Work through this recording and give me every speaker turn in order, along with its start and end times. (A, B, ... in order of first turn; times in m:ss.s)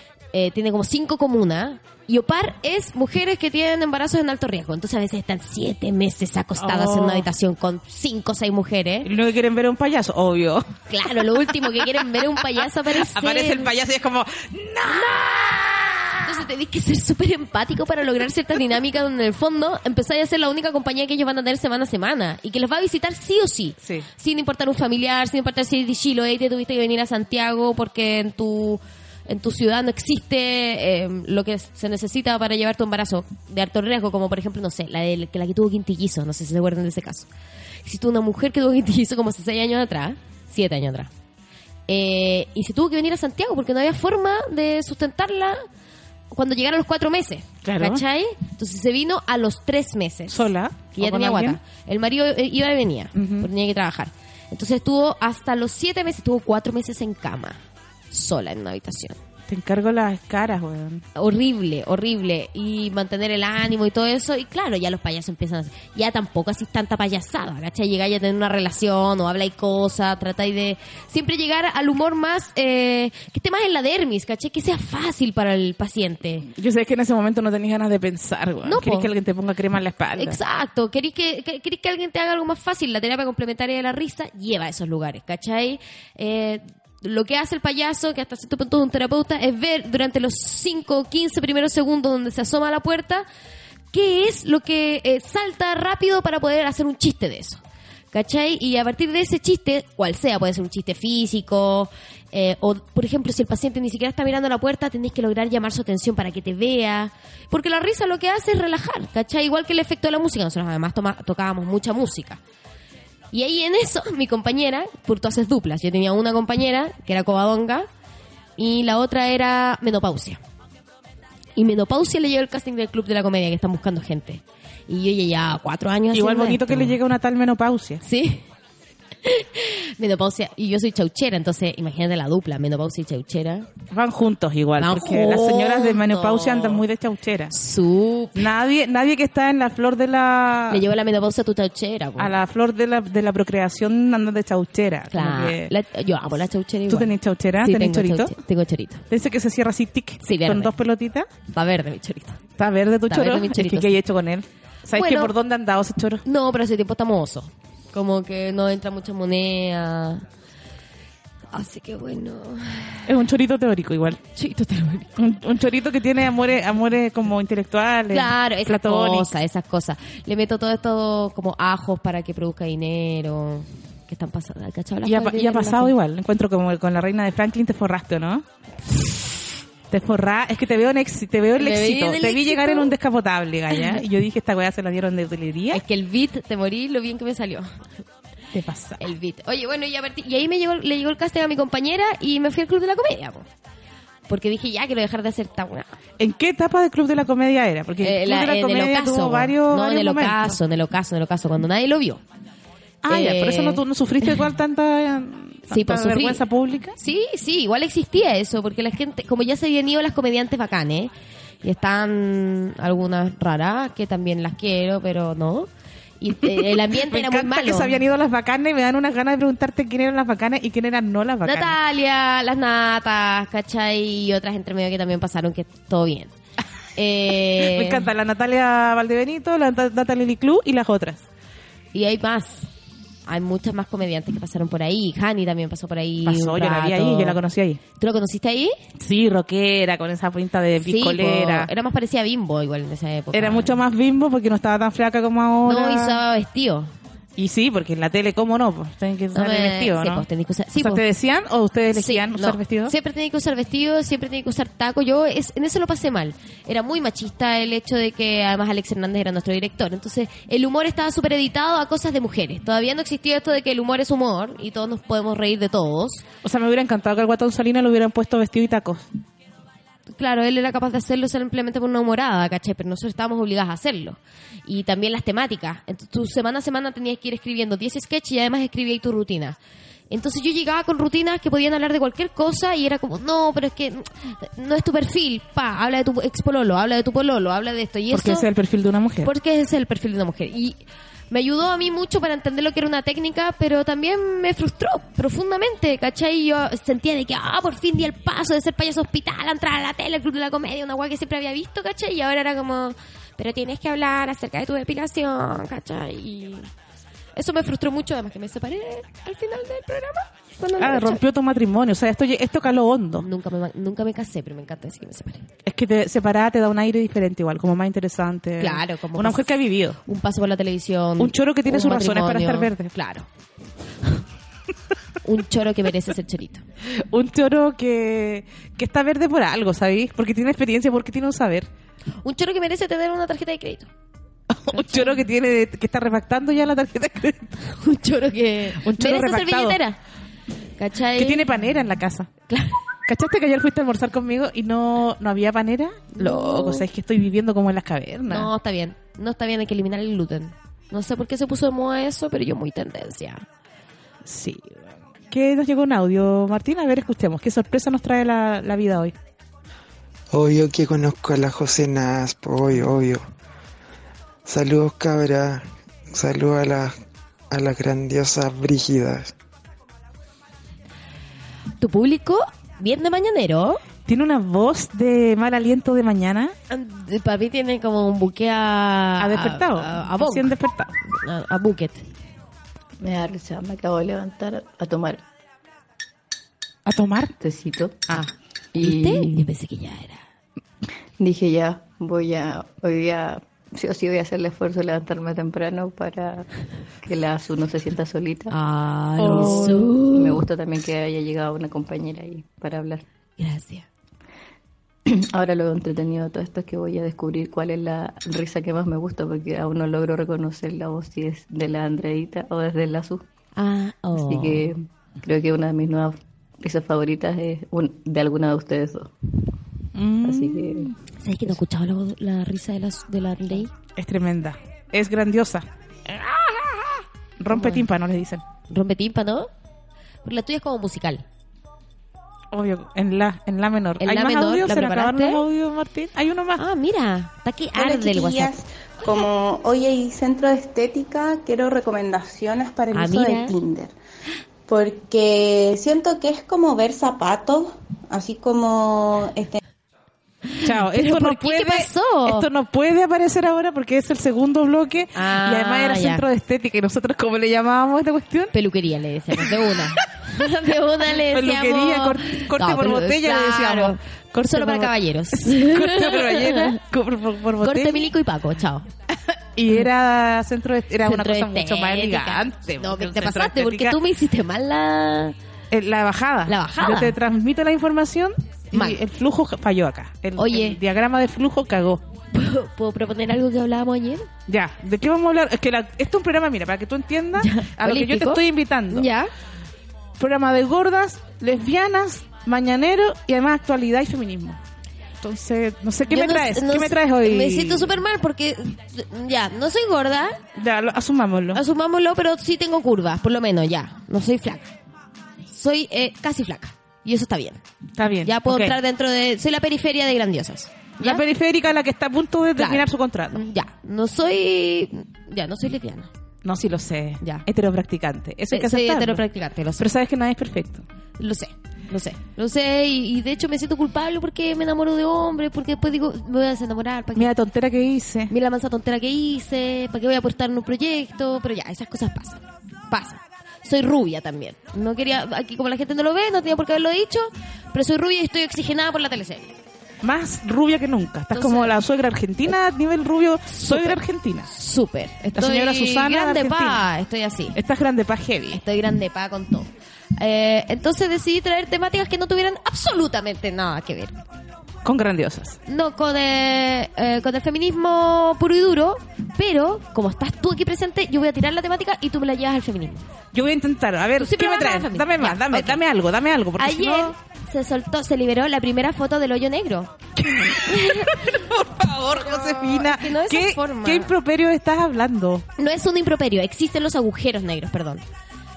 0:00.3-0:09.1 A
0:06.6-0:07.3 B
0:09.0-0:16.2 B
0:10.9-0:13.7 A
0:14.9-0:15.2 A
0:16.2-0:37.3 A
0:23.8-0:24.1 B
0:37.8-0:41.1 A
0:41.9-0:45.6 A
0:46.3-0:57.6 A
0:47.6-0:48.0 B
0:50.3-0:51.6 B
0:53.2-0:53.5 B
0:58.1-0:59.2 A
0:59.5-1:01.0 B
1:01.2-1:16.5 A
1:16.5-1:20.4 B
1:18.7-1:19.1 A
1:20.2-1:33.3 A
1:33.9-1:37.6 A
1:38.1-1:52.4 A
1:53.3-1:57.9 A
1:58.6-2:00.4 A
2:01.6-2:07.0 A
2:06.1-2:08.0 B
2:08.0-2:08.5 A
2:09.2-2:13.7 A
2:13.9-2:17.5 B
2:14.8-2:16.8 A
2:17.5-2:18.5 A
2:18.4-2:20.8 B
2:20.7-2:22.3 A
2:22.2-2:25.7 B
2:25.1-2:29.0 A
2:26.9-2:28.4 B
2:29.1-2:31.3 B
2:30.2-2:30.8 A
2:31.5-2:32.4 A
2:32.6-2:36.2 B
2:33.1-2:34.0 A
2:35.0-2:35.3 A
2:36.2-2:40.2 A
2:41.5-2:43.1 A
2:43.1-2:44.2 B
2:44.4-2:45.1 A
2:45.2-2:49.3 B
2:48.1-2:55.9 A
2:55.0-2:58.4 B
2:59.9-3:05.8 B
3:01.6-3:02.9 A
3:03.7-3:04.0 A
3:05.7-3:07.7 A
3:08.5-3:09.0 B
3:09.0-3:13.5 A
3:14.3-3:15.9 A
3:16.2-3:20.6 B
3:18.0-3:22.2 A
3:23.0-3:27.0 B
3:23.1-3:24.4 A
3:25.7-3:26.4 A
3:27.0-3:31.1 A
3:31.6-3:35.7 A
3:36.2-3:38.0 A
3:36.4-3:41.8 B
3:41.4-3:46.3 A
3:47.0-3:48.1 A
3:47.4-3:51.2 B
3:51.9-3:52.7 A
3:53.3-3:57.4 A
3:56.2-3:57.8 B
3:58.0-3:58.8 A
3:59.0-4:01.7 B
4:00.8-4:03.8 A
4:03.3-4:06.2 B
4:05.6-4:06.9 A
4:07.4-4:12.9 B
4:09.3-4:11.0 A
4:11.9-4:26.2 A
4:26.4-4:29.1 B
4:30.1-4:39.6 A
4:40.1-4:48.5 A
4:48.1-4:49.3 B
4:49.2-4:50.8 A
4:51.3-5:06.7 A
5:07.4-5:11.2 A
5:10.8-5:13.3 B
5:13.2-5:15.5 A
5:15.7-5:20.0 B
5:18.6-5:19.5 A
5:20.1-5:23.3 A
5:21.2-5:22.9 B
5:25.2-5:26.6 A
5:26.9-5:31.7 B
5:32.2-5:33.9 A
5:34.5-5:37.6 B
5:34.7-5:35.2 A
5:37.6-5:40.0 A
5:38.8-5:39.8 B
5:40.8-5:41.4 A
5:41.2-5:42.3 B
5:42.5-5:42.8 A
5:43.1-5:48.5 B
5:46.2-5:46.9 A
5:48.3-5:53.4 A
5:54.2-5:54.8 B
5:55.3-5:59.1 B
6:00.3-6:03.2 C
6:04.5-6:07.0 C
6:07.5-6:09.3 C
6:11.8-6:13.8 A
6:14.1-6:16.5 B
6:16.7-6:20.5 A
6:19.2-6:20.9 B
6:21.0-6:22.1 A
6:23.0-6:25.2 D
6:26.9-6:27.3 B
6:27.4-6:28.1 D
6:28.1-6:30.2 A
6:28.7-6:29.4 D
6:31.2-6:36.5 D
6:37.0-6:38.6 D
6:38.5-6:40.4 A
6:39.2-6:39.9 B
6:39.2-6:43.0 D
6:43.4-6:43.9 A
6:45.1-6:53.2 D
6:53.6-6:54.7 A
6:54.1-6:59.1 D
7:00.0-7:01.0 B
7:00.2-7:00.9 D
7:01.2-7:03.7 A
7:04.0-7:08.4 B
7:07.5-7:07.8 A
7:08.7-7:09.5 A
7:10.2-7:11.2 A
7:12.5-7:16.6 B
7:14.0-7:15.4 A
7:16.6-7:18.6 A
7:17.8-7:24.0 E
7:22.9-7:23.6 A
7:24.7-7:29.6 E
7:30.5-7:32.5 A
7:30.6-7:38.5 B
7:35.2-7:36.2 A
7:38.5-7:46.8 A
7:39.4-7:40.1 B
7:41.1-7:48.1 B
7:47.6-7:48.9 A
7:49.6-7:54.0 B
7:51.0-7:55.4 A
7:55.7-8:02.0 B
7:56.5-7:57.2 A
7:58.7-7:59.0 A
8:00.4-8:00.8 A
8:02.3-8:04.3 A
8:04.5-8:09.1 B
8:07.4-8:09.3 A
8:10.2-8:14.6 B
8:15.2-8:18.0 B
8:16.1-8:20.4 A
8:20.6-8:21.6 B
8:21.5-8:24.7 A
8:25.5-8:27.6 A
8:28.0-8:28.8 B
8:28.2-8:31.2 A
8:31.0-8:33.4 B
8:32.6-8:36.1 A
8:36.4-8:39.2 B
8:38.5-8:39.9 A
8:39.8-8:40.8 B
8:41.2-8:47.3 A
8:47.2-8:48.3 B
8:48.3-8:59.6 A
9:00.0-9:04.5 B
9:01.3-9:01.7 A
9:03.5-9:07.6 A
9:05.4-9:06.8 B
9:07.6-9:08.6 B
9:08.5-9:14.2 A
9:14.8-9:15.6 B
9:15.7-9:23.0 A
9:23.3-9:27.2 B
9:24.2-9:25.8 A
9:26.6-9:29.9 A
9:30.2-9:35.4 B
9:30.6-9:31.5 A
9:32.1-9:34.1 A
9:35.6-9:38.0 A